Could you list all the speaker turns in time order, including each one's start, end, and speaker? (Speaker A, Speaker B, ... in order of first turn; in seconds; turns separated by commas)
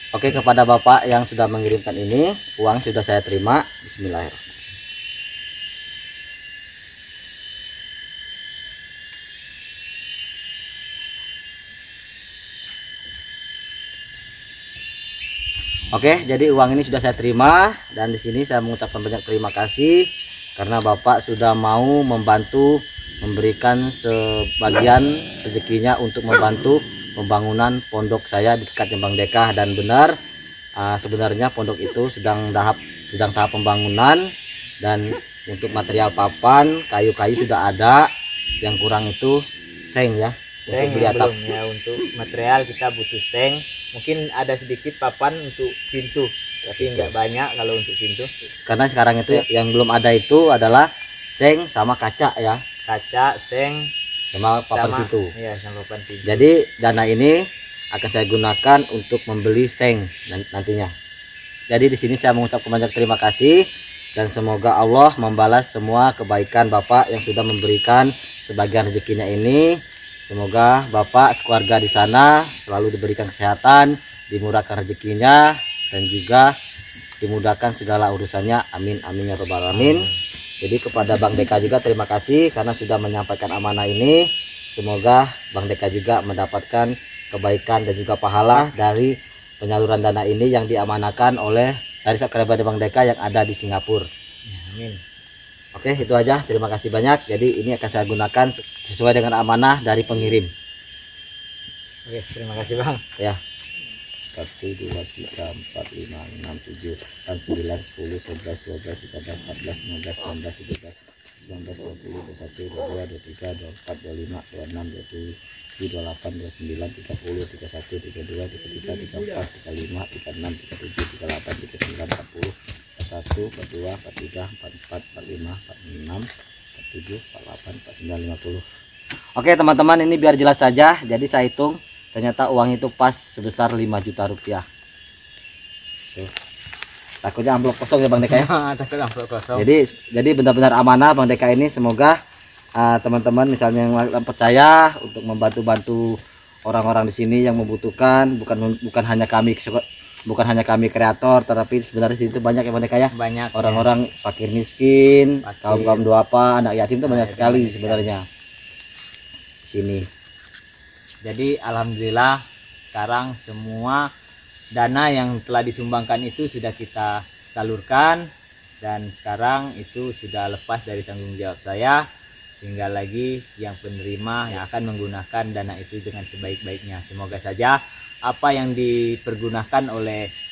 Speaker A: 0.1-4.5, Speaker A: 15.9-20.1, Speaker A: 20.6-30.1, Speaker A: 30.8-34.2, Speaker A: 34.8-38.0, Speaker A: 38.6-41.3, Speaker B: 40.7-48.3, Speaker A: 46.7-47.1, Speaker A: 48.7-52.6, Speaker B: 52.9-53.9, Speaker A: 54.3-55.3, Speaker B: 54.7-56.5, Speaker A: 56.3-57.4, Speaker A: 57.9-60.9, Speaker A: 61.7-63.6, Speaker A: 64.2-69.7, Speaker A: 70.3-76.5, Speaker A: 77.2-80.1, Speaker B: 79.7-80.1, Speaker A: 80.6-84.2, Speaker A: 84.8-94.1, Speaker B: 94.5-95.0, Speaker A: 95.8-100.5, Speaker B: 102.1-103.0, Speaker A: 104.3-111.0, Speaker A: 111.5-128.6, Speaker A: 129.4-134.6, Speaker A: 137.2-138.4, Speaker B: 138.2-139.7, Speaker A: 139.6-142.2, Speaker A: 142.8-146.2, Speaker A: 146.7-158.2, Speaker B: 153.1-153.9, Speaker B: 155.4-156.0, Speaker B: 157.0-158.1, Speaker A: 159.7-160.1, Speaker B: 161.2-162.4, Speaker B: 162.9-164.1, Speaker B: 164.8-168.3, Speaker B: 168.8-172.0, Speaker B: 172.6-180.2